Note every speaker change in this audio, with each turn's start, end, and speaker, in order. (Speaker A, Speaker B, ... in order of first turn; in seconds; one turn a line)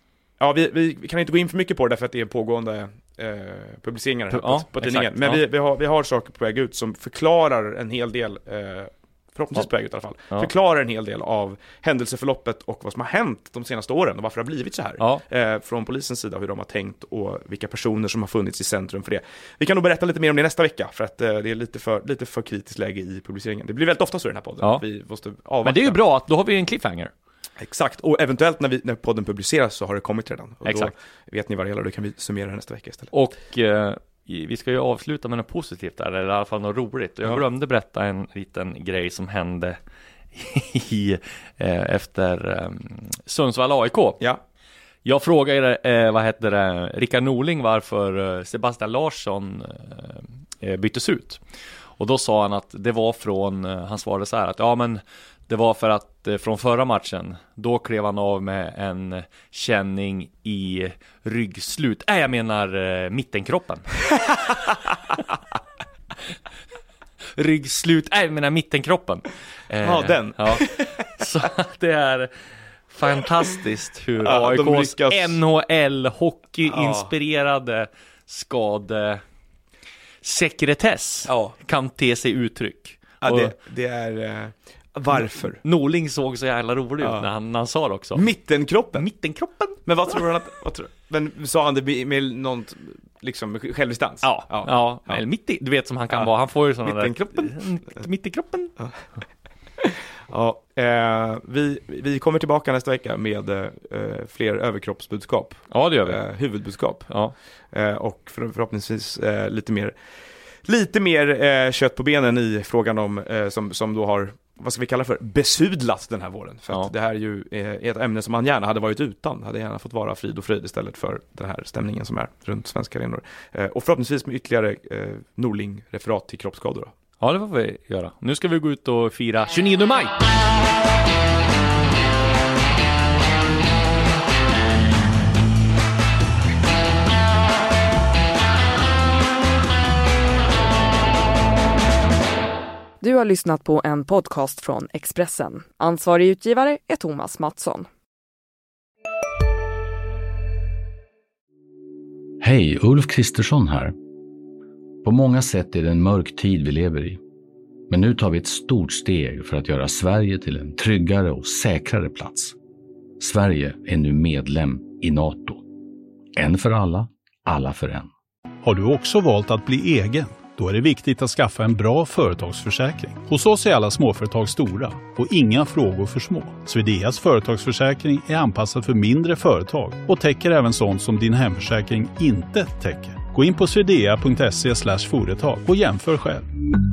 Speaker A: 0.4-26.0
Speaker B: 4.3-5.4
Speaker B: 25.6-27.1
Speaker A: 27.6-33.1
Speaker B: 30.6-30.9
Speaker B: 33.1-39.8
Speaker B: 40.3-44.2
Speaker B: 45.0-51.4
Speaker B: 52.0-64.9
Speaker B: 67.3-72.3
Speaker A: 69.8-71.2
Speaker B: 72.9-79.2
Speaker A: 74.2-75.4
Speaker A: 76.7-77.1
Speaker B: 80.2-83.5
Speaker A: 81.3-81.5
Speaker A: 83.2-85.6
Speaker B: 85.6-88.3
Speaker A: 87.0-87.3
Speaker A: 88.2-89.0
Speaker B: 89.0-89.8
Speaker A: 89.8-95.2
Speaker B: 94.2-98.8
Speaker A: 96.8-98.0
Speaker A: 98.8-99.0
Speaker A: 99.8-107.2
Speaker B: 105.7-106.2
Speaker A: 107.7-110.0
Speaker A: 110.6-126.9
Speaker B: 127.2-130.1
Speaker C: 143.0-147.9
Speaker D: 152.4-153.9
Speaker D: 155.0-157.2
Speaker D: 157.9-162.6
Speaker D: 163.2-165.6
Speaker D: 166.3-168.1
Speaker E: 168.6-186.4